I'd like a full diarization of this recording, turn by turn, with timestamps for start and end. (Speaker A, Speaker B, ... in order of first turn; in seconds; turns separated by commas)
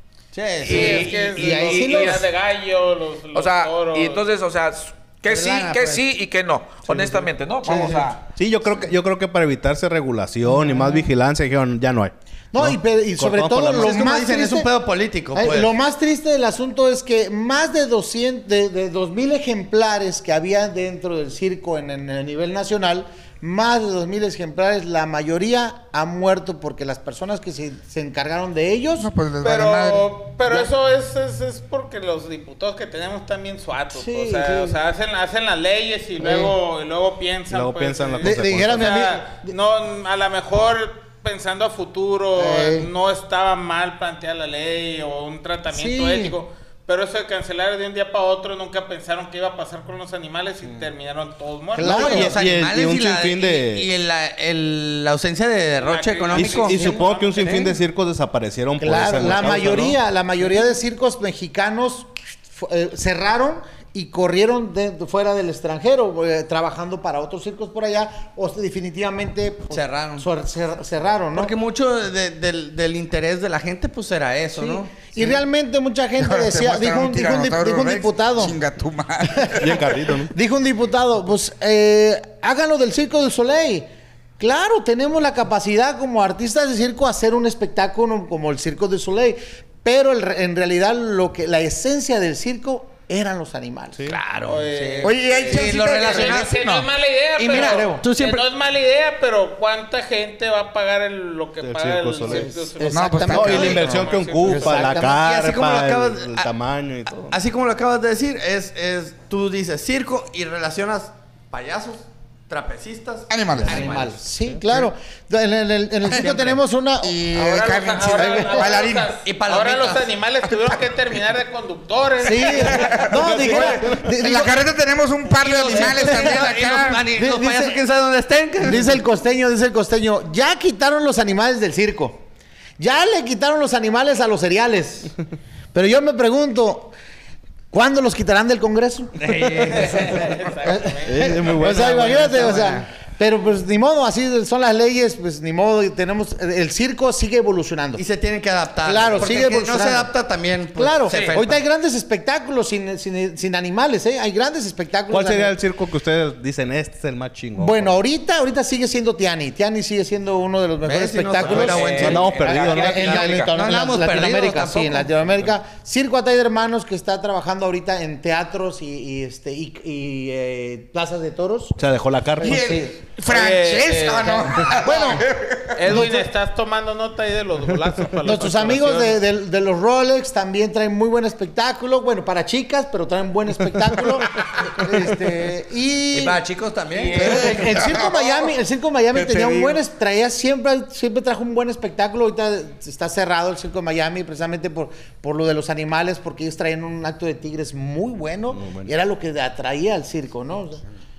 Speaker A: 0.3-1.1, Speaker B: 0.6-2.3, Speaker C: 0.6-4.2, Speaker D: 1.4-2.2, Speaker B: 3.3-8.2, Speaker A: 5.2-6.0, Speaker E: 6.9-13.9, Speaker D: 7.6-8.1, Speaker D: 10.5-11.1, Speaker D: 12.5-14.7, Speaker A: 13.7-15.7, Speaker D: 15.3-29.1, Speaker F: 29.0-30.1, Speaker C: 29.4-52.3, Speaker D: 30.4-30.7, Speaker D: 33.9-34.8, Speaker D: 36.2-36.6, Speaker E: 37.5-39.0, Speaker D: 38.2-39.5, Speaker D: 42.4-42.9, Speaker D: 45.7-46.4, Speaker D: 51.8-52.4, Speaker A: 51.8-56.9, Speaker E: 51.8-53.9, Speaker C: 55.8-57.8, Speaker E: 56.3-60.0, Speaker D: 56.4-57.1, Speaker D: 58.8-71.5, Speaker A: 69.7-70.3, Speaker A: 71.3-75.1, Speaker D: 74.5-78.6, Speaker F: 76.2-79.8, Speaker E: 79.6-80.3, Speaker D: 80.3-83.9, Speaker D: 84.4-94.2, Speaker A: 94.1-96.6, Speaker C: 94.5-104.8, Speaker F: 95.0-96.9, Speaker A: 97.4-98.5, Speaker E: 101.6-102.5, Speaker D: 102.2-105.2, Speaker F: 102.9-104.7, Speaker E: 103.3-107.4, Speaker A: 105.2-106.5, Speaker A: 107.3-114.2, Speaker F: 113.3-114.0, Speaker E: 113.5-113.9, Speaker D: 113.7-117.2, Speaker A: 116.2-116.6, Speaker F: 117.0-119.2, Speaker C: 117.3-123.0, Speaker D: 118.1-118.7, Speaker A: 119.2-120.1, Speaker D: 122.2-124.6, Speaker F: 122.4-127.0, Speaker E: 123.4-124.0, Speaker A: 125.4-128.9, Speaker D: 125.7-126.5, Speaker D: 127.1-127.8, Speaker D: 128.6-132.3, Speaker D: 132.8-135.1, Speaker D: 135.7-137.0, Speaker D: 137.7-139.1, Speaker A: 139.2-140.5, Speaker C: 139.7-141.5, Speaker D: 140.6-148.0, Speaker E: 141.0-142.3, Speaker A: 141.6-142.9, Speaker A: 148.0-151.7, Speaker D: 148.8-150.1, Speaker D: 150.8-155.5, Speaker B: 151.1-151.4, Speaker E: 155.1-158.0, Speaker D: 157.6-171.8, Speaker A: 160.8-165.2, Speaker B: 161.4-163.5, Speaker E: 161.8-163.0, Speaker E: 171.8-172.8, Speaker D: 172.4-172.9, Speaker F: 172.4-175.8, Speaker C: 173.2-175.2, Speaker D: 174.7-175.3, Speaker C: 175.8-179.2, Speaker D: 175.8-176.3, Speaker D: 178.2-186.4, Speaker A: 186.1-187.6, Speaker B: 186.9-187.7, Speaker F: 187.2-188.5, Speaker D: 187.2-200.8, Speaker F: 189.1-189.8, Speaker E: 198.5-198.9